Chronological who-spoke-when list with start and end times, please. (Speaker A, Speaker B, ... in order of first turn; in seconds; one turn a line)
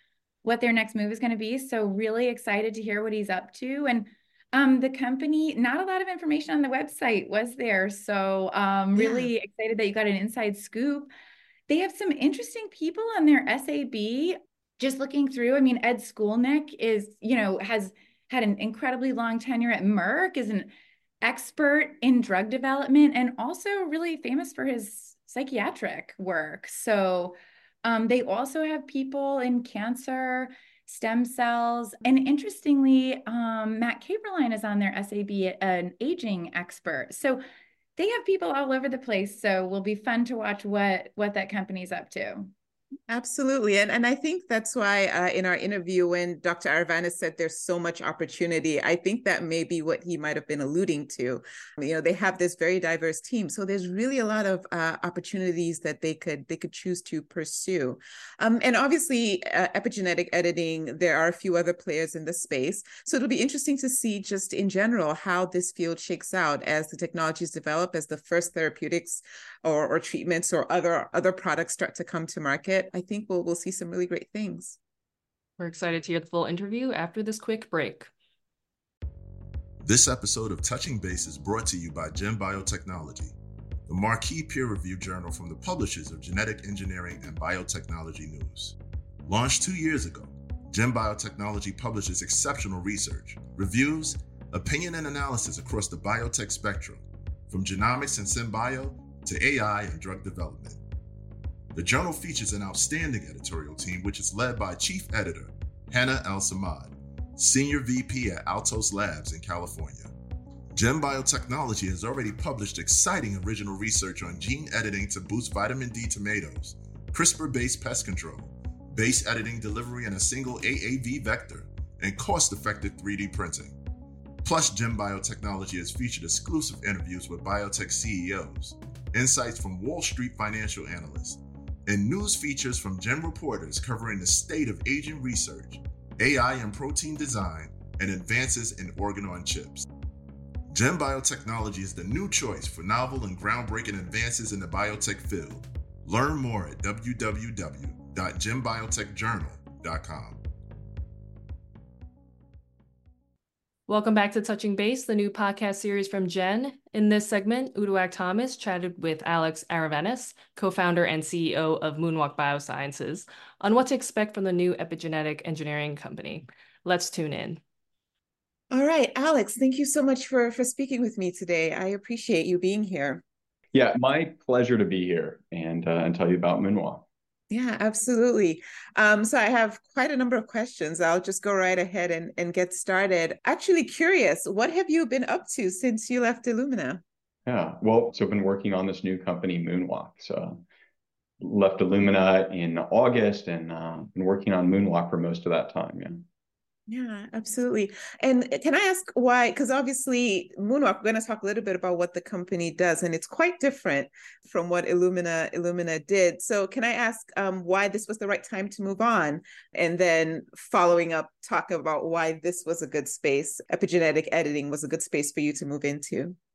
Speaker A: 0.4-11.1
Speaker B: 9.0-9.3
Speaker A: 11.7-20.7
Speaker A: 21.2-37.4
Speaker A: 38.0-42.5
Speaker B: 43.1-74.8
Speaker C: 75.6-78.1
Speaker D: 79.8-83.3
Speaker D: 83.9-100.8
Speaker D: 101.7-110.1
Speaker D: 110.7-123.8
Speaker D: 124.5-139.9
Speaker D: 140.7-150.4
Speaker C: 153.9-167.6
Speaker B: 168.7-173.2
Speaker E: 173.7-177.1
Speaker B: 177.5-187.0
Speaker E: 187.5-190.6
Speaker E: 191.4-196.2
Speaker B: 196.9-216.4